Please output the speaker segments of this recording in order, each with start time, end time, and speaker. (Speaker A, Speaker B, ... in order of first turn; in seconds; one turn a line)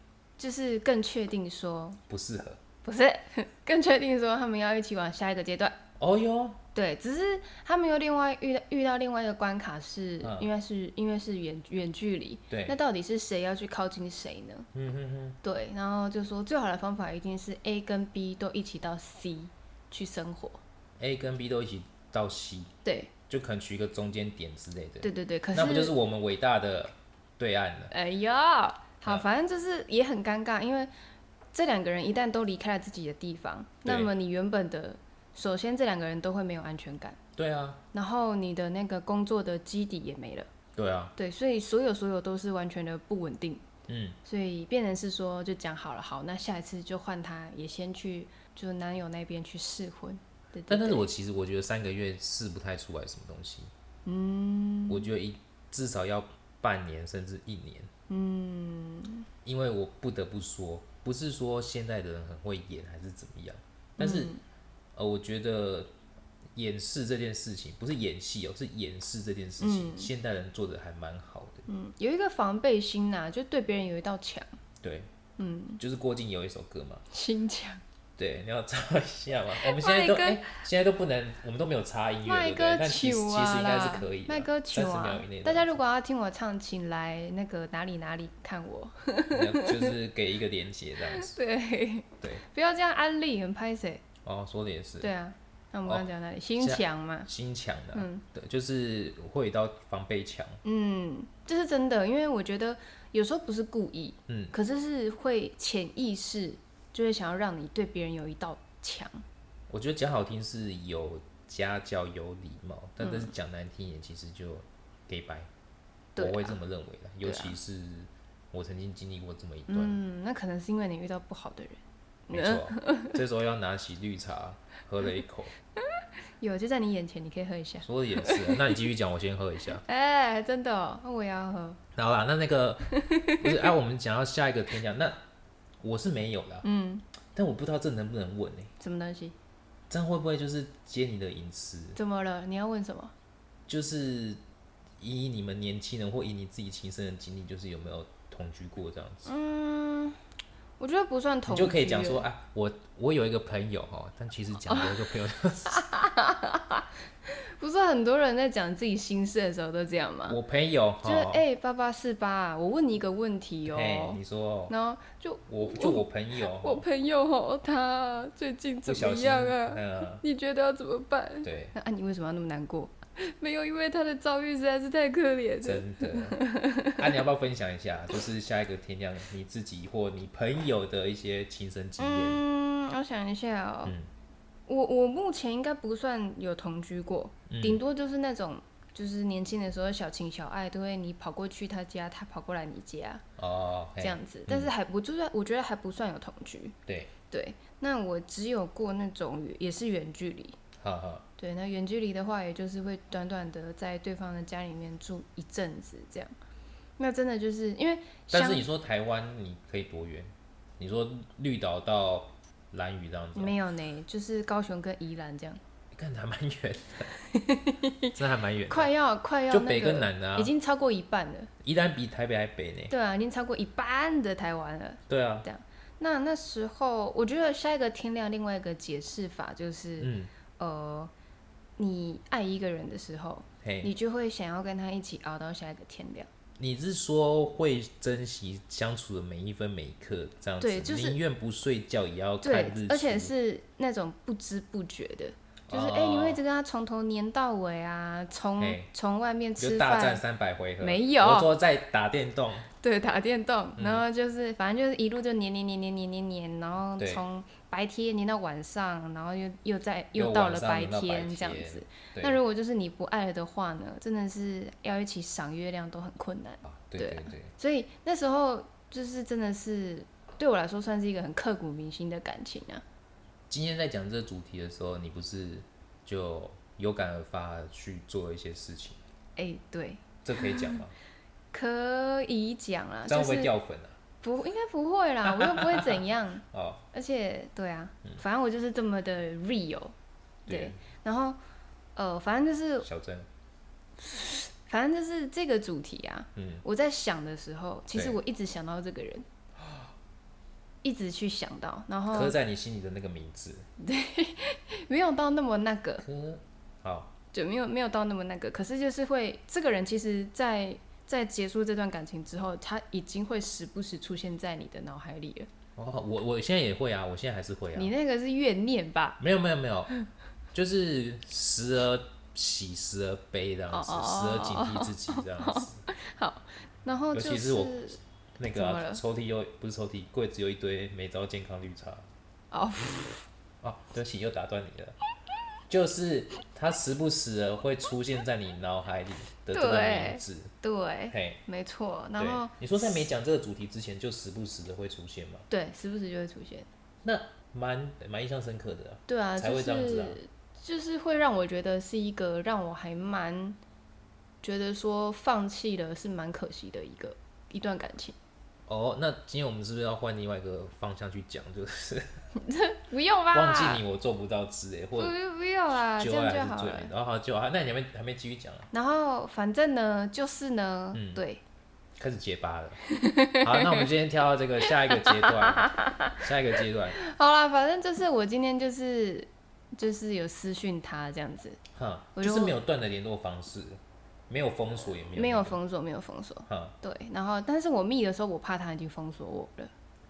Speaker A: 0.4-2.0
Speaker B: 2.1-2.6
Speaker A: 2.8-5.8
Speaker B: 6.0-6.6
Speaker A: 6.8-14.7
Speaker B: 10.2-10.5
Speaker B: 12.5-12.8
Speaker B: 14.7-15.4
Speaker A: 15.4-20.6
Speaker B: 21.0-22.7
Speaker A: 22.9-23.1
Speaker B: 23.3-27.9
Speaker A: 25.0-25.9
Speaker A: 27.9-30.9
Speaker A: 31.5-37.2
Speaker B: 33.9-34.1
Speaker B: 37.4-37.8
Speaker A: 37.9-40.5
Speaker B: 40.8-41.1
Speaker A: 41.2-43.6
Speaker B: 43.9-44.2
Speaker A: 44.2-51.1
Speaker B: 50.7-53.7
Speaker A: 54.0-55.1
Speaker B: 54.9-57.9
Speaker A: 58.1-59.3
Speaker B: 59.5-64.3
Speaker A: 64.0-64.4
Speaker B: 65.0-65.9
Speaker B: 66.5-71.7
Speaker A: 69.6-70.1
Speaker A: 71.7-74.5
Speaker B: 74.8-75.1
Speaker A: 75.4-75.8
Speaker B: 75.8-77.0
Speaker A: 77.1-77.8
Speaker B: 78.2-85.8
Speaker A: 79.5-80.6
Speaker A: 82.2-90.0
Speaker B: 89.3-91.3
Speaker A: 91.0-94.0
Speaker B: 94.2-95.1
Speaker A: 95.0-97.3
Speaker B: 96.6-100.6
Speaker A: 97.9-98.2
Speaker A: 100.6-109.2
Speaker B: 104.3-104.5
Speaker B: 109.7-115.5
Speaker A: 113.0-113.3
Speaker A: 116.2-116.6
Speaker B: 116.2-120.0
Speaker A: 117.2-117.6
Speaker A: 119.7-123.2
Speaker B: 122.3-125.5
Speaker A: 126.4-128.7
Speaker B: 127.8-129.8
Speaker A: 129.8-131.8
Speaker B: 131.9-135.2
Speaker A: 132.9-133.7
Speaker B: 135.8-136.7
Speaker A: 136.6-137.0
Speaker B: 137.3-138.7
Speaker A: 138.8-139.3
Speaker B: 139.9-142.0
Speaker A: 142.0-143.1
Speaker B: 143.7-144.4
Speaker B: 145.0-149.3
Speaker A: 149.2-150.2
Speaker A: 150.8-152.2
Speaker B: 151.5-155.9
Speaker A: 154.7-155.0
Speaker A: 155.7-160.4
Speaker B: 160.3-161.4
Speaker A: 161.0-177.1
Speaker B: 163.7-164.7
Speaker B: 165.5-166.8
Speaker B: 168.9-170.2
Speaker B: 171.4-171.7
Speaker B: 175.6-176.4
Speaker B: 177.0-182.4
Speaker A: 182.0-183.9
Speaker A: 184.7-193.2
Speaker B: 187.5-187.8
Speaker B: 193.4-194.7
Speaker A: 194.0-196.8
Speaker B: 196.9-197.1
Speaker A: 197.3-200.6
Speaker B: 200.8-201.3
Speaker A: 201.4-206.3
Speaker A: 207.0-208.6
Speaker B: 208.3-213.6
Speaker A: 213.3-215.6
Speaker B: 215.9-217.1
Speaker A: 217.1-221.5
Speaker B: 218.2-218.9
Speaker B: 219.5-220.5
Speaker B: 221.6-222.9
Speaker A: 222.9-231.1
Speaker B: 225.1-225.5
Speaker B: 230.0-230.3
Speaker A: 231.8-236.3
Speaker B: 233.6-233.9
Speaker B: 236.6-243.3
Speaker A: 240.6-241.2
Speaker A: 242.4-250.2
Speaker B: 245.7-246.4
Speaker B: 248.6-248.9
Speaker B: 249.6-252.7
Speaker A: 250.8-251.5
Speaker A: 252.8-272.8
Speaker B: 253.8-254.1
Speaker B: 257.0-257.2
Speaker B: 260.1-262.4
Speaker B: 266.7-267.5
Speaker B: 273.5-279.0
Speaker A: 279.4-280.8
Speaker B: 280.2-280.9
Speaker A: 281.5-283.5
Speaker B: 283.1-284.0
Speaker A: 284.2-289.9
Speaker B: 285.2-286.9
Speaker B: 290.5-290.8
Speaker A: 290.5-291.4
Speaker A: 292.0-292.9
Speaker B: 292.8-293.3
Speaker A: 294.0-299.3
Speaker B: 296.4-296.6
Speaker B: 297.9-298.2
Speaker B: 299.6-299.9
Speaker A: 300.8-302.3
Speaker B: 302.1-303.7
Speaker A: 303.8-306.0
Speaker B: 306.0-307.1
Speaker A: 307.3-315.5
Speaker B: 315.8-317.9
Speaker A: 317.8-319.2
Speaker B: 319.2-319.9
Speaker B: 320.5-325.8
Speaker A: 323.7-328.0
Speaker B: 327.1-327.9
Speaker B: 328.4-332.1
Speaker A: 328.5-329.0
Speaker A: 332.5-333.2
Speaker B: 333.6-335.0
Speaker B: 335.7-340.5
Speaker A: 339.5-343.0
Speaker B: 341.1-341.4
Speaker B: 342.2-345.5
Speaker A: 345.5-346.7
Speaker B: 347.0-350.2
Speaker A: 349.1-353.6
Speaker A: 354.4-358.2
Speaker B: 358.7-362.2
Speaker A: 362.4-363.8
Speaker B: 363.3-365.1
Speaker A: 365.0-366.9
Speaker B: 365.9-368.7
Speaker A: 368.7-371.4
Speaker B: 370.9-371.2
Speaker B: 372.0-372.8
Speaker A: 372.9-373.9
Speaker B: 373.4-377.0
Speaker A: 374.6-376.2
Speaker A: 376.9-381.6
Speaker B: 381.7-385.6
Speaker A: 382.2-382.6
Speaker A: 385.1-389.7
Speaker B: 386.5-386.8